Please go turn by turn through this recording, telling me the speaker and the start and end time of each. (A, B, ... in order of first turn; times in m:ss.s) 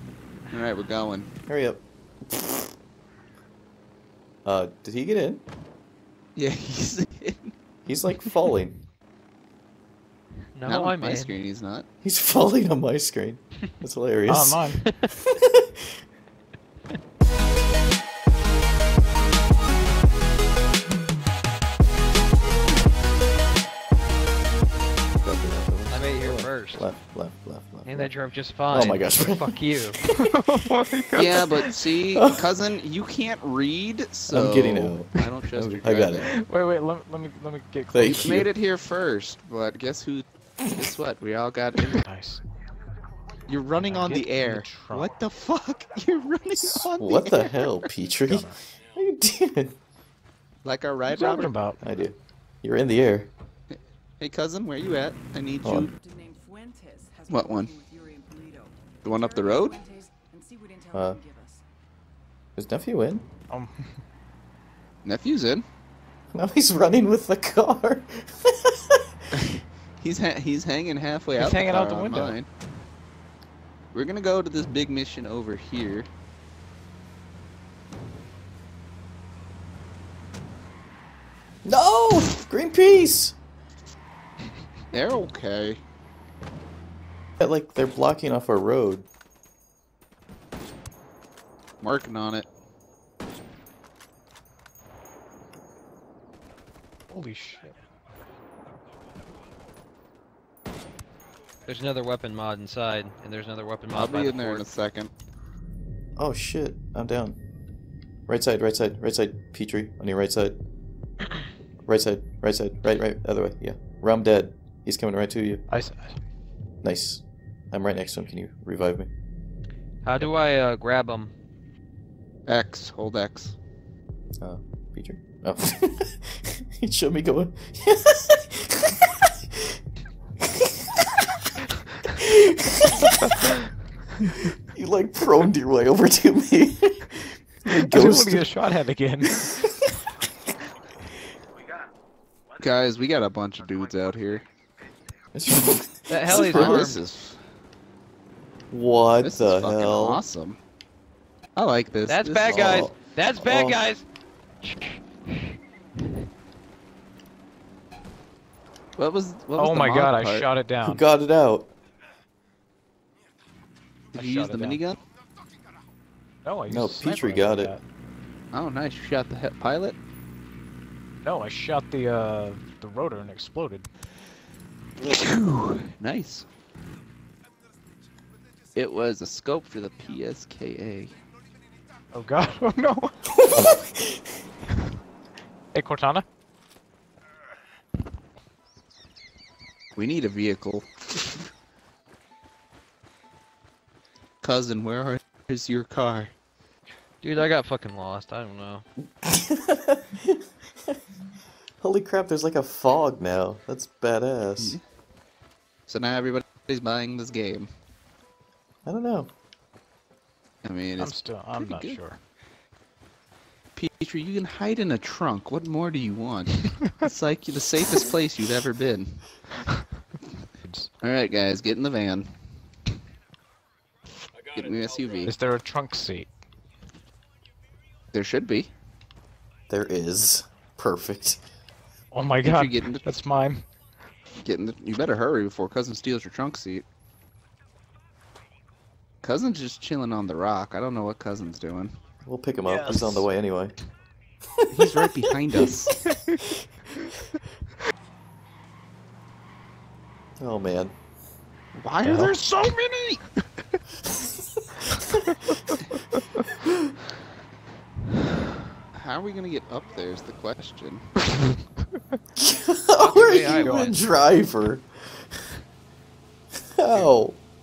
0:00.5-0:01.3 A
0:01.5-0:02.6 B
0:04.4-0:05.4 B
0:06.4-0:07.5 A
0:07.8-0:08.8 B
0:10.5-0:11.4 C
0:10.6-0:11.8 A
0:12.0-0:14.7 B
0:14.3-0:14.8 D
0:15.2-0:15.6 B
0:25.2-0:28.1 B
0:25.9-0:26.9 C
0:27.8-0:30.0 C
0:28.7-0:29.9 B
0:30.0-0:31.7 D
0:31.1-0:36.3 A
0:32.1-0:32.4 B
0:34.3-0:36.3 B
0:36.2-0:38.5 D
0:37.9-0:38.5 B
0:38.2-0:42.0 A
0:41.9-0:42.4 D
0:43.5-0:47.8 A
0:43.8-0:45.1 D
0:46.5-0:49.8 B
0:48.2-0:48.6 D
0:50.6-0:51.5 A
0:51.1-0:51.8 D
0:51.8-0:53.3 B
0:54.2-0:55.9 A
0:55.6-0:55.9 B
0:56.0-0:58.8 E
0:57.3-0:57.8 A
0:59.0-0:59.8 A
0:59.5-1:01.6 E
1:02.6-1:03.3 B
1:03.5-1:04.0 D
1:05.0-1:05.6 A
1:06.3-1:09.0 B
1:09.3-1:12.5 A
1:11.4-1:12.4 D
1:13.9-1:16.1 A
1:21.6-1:23.4 B
1:24.9-1:25.8 A
1:27.4-1:29.1 B
1:31.8-1:32.5 A
1:37.1-1:37.8 D
1:41.7-1:44.7 C
1:43.9-1:45.1 A
1:46.2-1:47.4 B
1:48.3-1:50.6 B
1:51.9-1:55.6 B
1:55.7-1:56.2 D
1:56.8-1:59.1 B
2:00.0-2:01.3 C
2:02.5-2:03.6 A
2:04.4-2:09.2 B
2:10.5-2:11.0 B
2:12.1-2:13.6 B
2:14.5-2:18.5 B
2:17.7-2:19.5 D
2:19.4-2:19.7 B
2:22.6-2:24.4 A
2:25.3-2:27.0 B
2:26.1-2:27.0 C
2:26.2-2:27.4 A
2:28.7-2:30.2 B
2:29.2-2:30.6 A
2:31.6-2:32.9 A
2:32.0-2:34.0 C
2:32.4-2:33.8 B
2:34.6-2:35.4 C
2:39.0-2:40.5 A
2:39.6-2:41.0 D
2:40.8-2:41.7 B
2:44.1-2:45.0 A
2:44.1-2:44.8 D
2:46.4-2:47.8 D
2:46.7-2:47.7 B
2:48.5-2:50.0 A
2:51.2-2:53.9 D
2:55.0-2:56.5 A
2:58.8-3:01.2 A
3:02.1-3:03.8 D
3:03.5-3:03.8 B
3:05.7-3:06.2 D
3:10.0-3:10.9 A
3:14.4-3:16.3 A
3:17.2-3:18.8 C
3:19.2-3:20.4 B
3:21.8-3:24.8 B
3:24.6-3:24.8 A
3:25.9-3:27.7 A
3:28.8-3:29.3 B
3:30.6-3:32.0 A
3:31.0-3:32.2 D
3:33.8-3:39.2 A
3:40.6-3:40.9 D
3:41.0-3:42.3 A
3:44.5-3:45.3 A
3:45.2-3:46.3 D
3:48.1-3:48.7 A
3:49.7-3:51.4 B
3:52.1-3:53.7 D
3:52.4-3:53.2 A
3:54.4-3:56.8 A
3:59.2-4:02.0 A
4:02.2-4:03.7 B
4:02.8-4:03.1 A
4:04.6-4:05.1 B
4:04.7-4:05.9 A
4:06.1-4:06.4 B
4:10.4-4:10.9 B
4:11.7-4:13.2 A
4:12.0-4:12.3 D
4:14.9-4:15.8 B
4:18.9-4:21.1 A
4:22.4-4:24.9 B
4:22.9-4:24.0 C
4:23.1-4:23.9 D
4:26.8-4:27.4 B